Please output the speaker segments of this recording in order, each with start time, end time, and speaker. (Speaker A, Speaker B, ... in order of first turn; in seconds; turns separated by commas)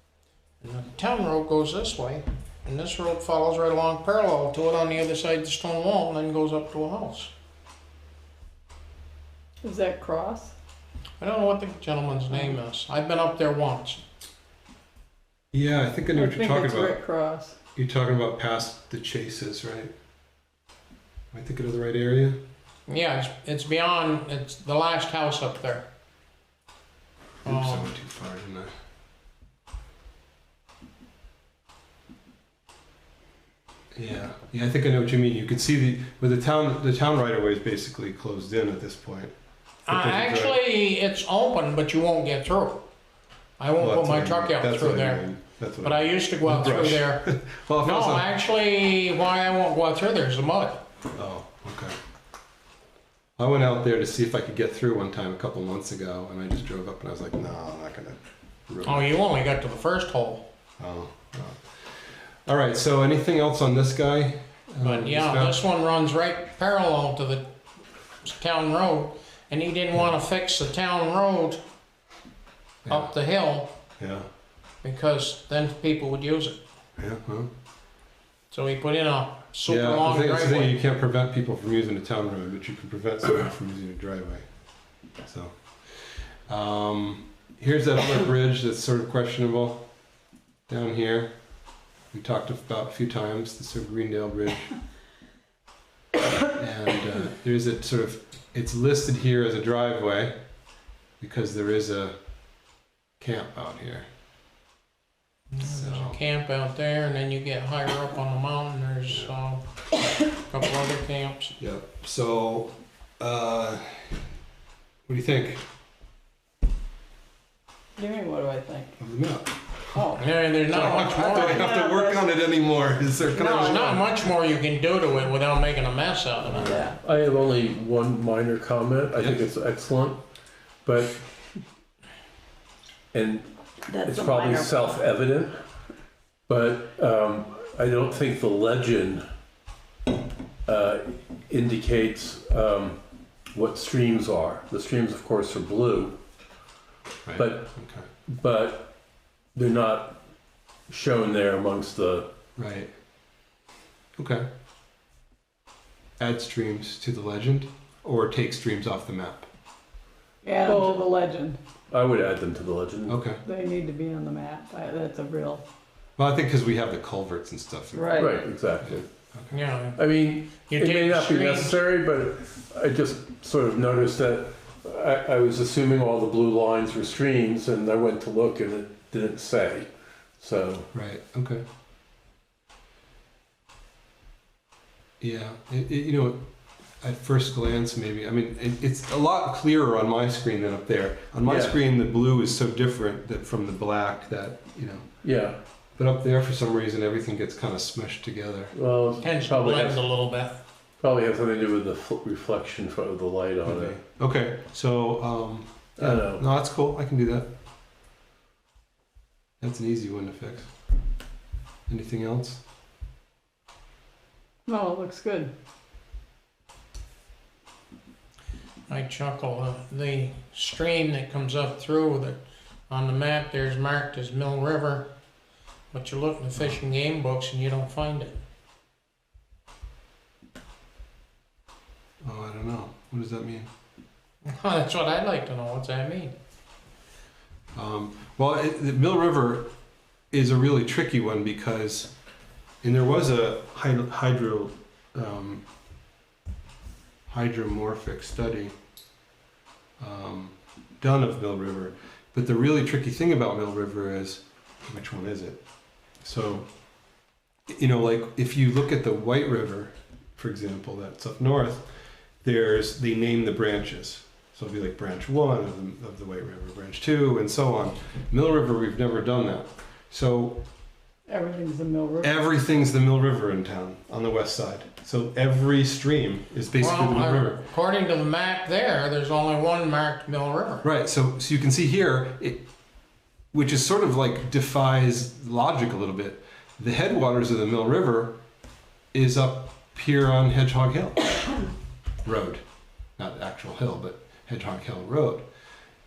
Speaker A: 0.6-7.3, Speaker B: 9.6-10.5, Speaker A: 11.2-14.0, Speaker C: 15.5-17.0, Speaker B: 16.1-17.6, Speaker C: 17.8-19.9, Speaker C: 21.3-22.4, Speaker A: 22.9-25.9, Speaker C: 27.4-28.7, Speaker A: 27.4-27.9, Speaker C: 33.9-39.3, Speaker A: 39.9-42.9, Speaker C: 39.9-40.6, Speaker A: 43.6-45.2, Speaker C: 43.8-48.3, Speaker A: 45.8-47.3, Speaker A: 47.8-50.8, Speaker C: 51.1-52.0, Speaker C: 53.4-59.1, Speaker A: 58.8-60.5, Speaker C: 60.8-65.6, Speaker A: 64.8-67.5, Speaker A: 68.2-71.6, Speaker C: 72.8-73.1, Speaker A: 72.9-73.7, Speaker C: 74.0-74.3, Speaker A: 74.8-76.6, Speaker C: 77.0-77.5, Speaker A: 78.5-80.8, Speaker C: 79.7-89.9, Speaker C: 90.7-91.4, Speaker C: 92.1-94.7, Speaker C: 96.5-100.4, Speaker C: 101.2-102.2, Speaker C: 103.2-104.1, Speaker A: 105.5-109.6, Speaker C: 105.6-106.2, Speaker A: 110.3-111.5, Speaker C: 111.6-114.2, Speaker C: 115.1-115.7, Speaker B: 118.0-119.0, Speaker C: 119.0-119.5, Speaker B: 119.9-120.2, Speaker A: 120.2-121.8, Speaker C: 120.7-124.1, Speaker B: 120.8-122.2, Speaker B: 123.3-123.8, Speaker A: 123.5-126.9, Speaker C: 126.5-126.8, Speaker B: 126.6-127.0, Speaker D: 127.0-130.2, Speaker D: 130.8-131.2, Speaker D: 133.1-135.6, Speaker B: 133.9-135.0, Speaker D: 136.5-139.2, Speaker D: 140.7-143.0, Speaker D: 143.5-146.2, Speaker C: 147.2-148.1, Speaker D: 147.4-147.7, Speaker D: 148.3-148.9, Speaker D: 149.6-150.2, Speaker D: 150.9-152.3, Speaker C: 152.6-152.9, Speaker C: 154.2-154.5, Speaker C: 156.2-159.5, Speaker B: 160.4-161.6, Speaker D: 160.7-161.0, Speaker D: 161.9-163.2, Speaker C: 163.1-163.4, Speaker B: 163.4-165.6, Speaker C: 166.2-169.6, Speaker B: 167.9-168.4, Speaker D: 168.1-169.1, Speaker A: 169.5-170.0, Speaker D: 170.0-180.9, Speaker A: 170.5-171.8, Speaker C: 180.9-181.6, Speaker C: 185.2-186.5, Speaker C: 187.0-195.1, Speaker D: 191.5-191.8, Speaker D: 195.2-195.6, Speaker C: 196.0-198.7, Speaker D: 198.7-200.0, Speaker A: 199.2-200.6, Speaker D: 201.0-204.0, Speaker C: 203.7-207.5, Speaker D: 206.0-206.4, Speaker C: 209.6-210.7, Speaker C: 211.9-212.6, Speaker B: 214.7-215.5, Speaker A: 218.9-225.1, Speaker A: 225.9-228.4, Speaker C: 232.2-233.7, Speaker A: 234.4-236.3, Speaker C: 237.7-239.7, Speaker C: 240.3-242.1, Speaker C: 242.8-245.6, Speaker C: 247.3-248.8, Speaker C: 250.0-255.6, Speaker C: 256.2-256.7, Speaker C: 257.7-261.9, Speaker C: 262.4-270.6, Speaker B: 271.3-272.3, Speaker C: 272.2-277.6, Speaker A: 276.8-280.9, Speaker C: 280.8-282.7, Speaker C: 283.5-288.4, Speaker C: 289.1-291.3, Speaker C: 292.2-292.6, Speaker C: 293.2-295.5